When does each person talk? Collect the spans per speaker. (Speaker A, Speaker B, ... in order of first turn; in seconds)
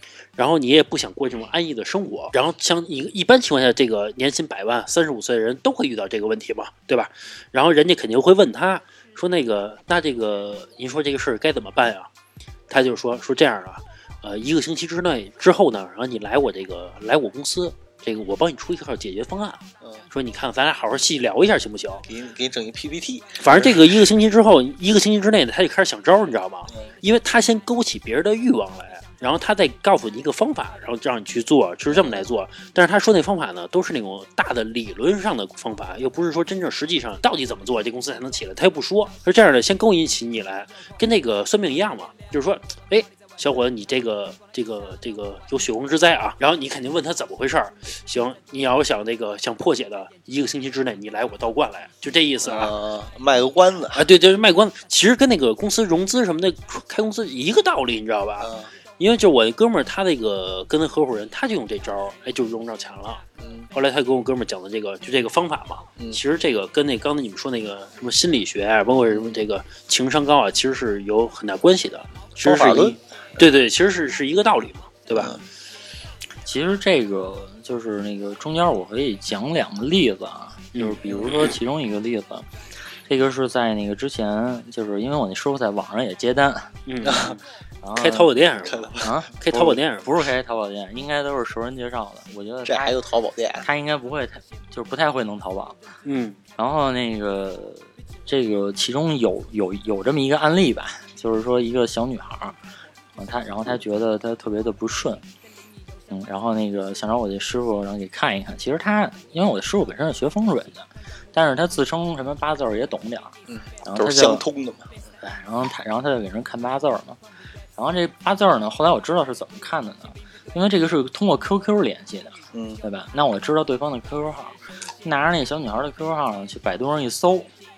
Speaker A: 0.4-12.1, 12.7-22.0, 23.4-52.7, 53.9-63.2, 63.7-75.4, 80.7-81.5, 86.9-87.4, 87.9-90.1, 96.0-96.4
Speaker B: 22.1-23.9, 31.9-32.3, 52.4-54.1, 58.4-58.7, 63.4-63.7, 69.1-69.4, 72.4-73.5, 75.1-75.4, 87.0-87.4, 88.6-89.1, 92.6-93.7, 113.5-114.9, 122.5-122.8
Speaker C: 76.4-82.5, 83.1-86.7, 87.8-88.3, 89.0-93.0, 93.6-95.8, 96.6-102.6, 103.2-105.2, 106.1-114.4, 115.2-117.2, 117.8-127.5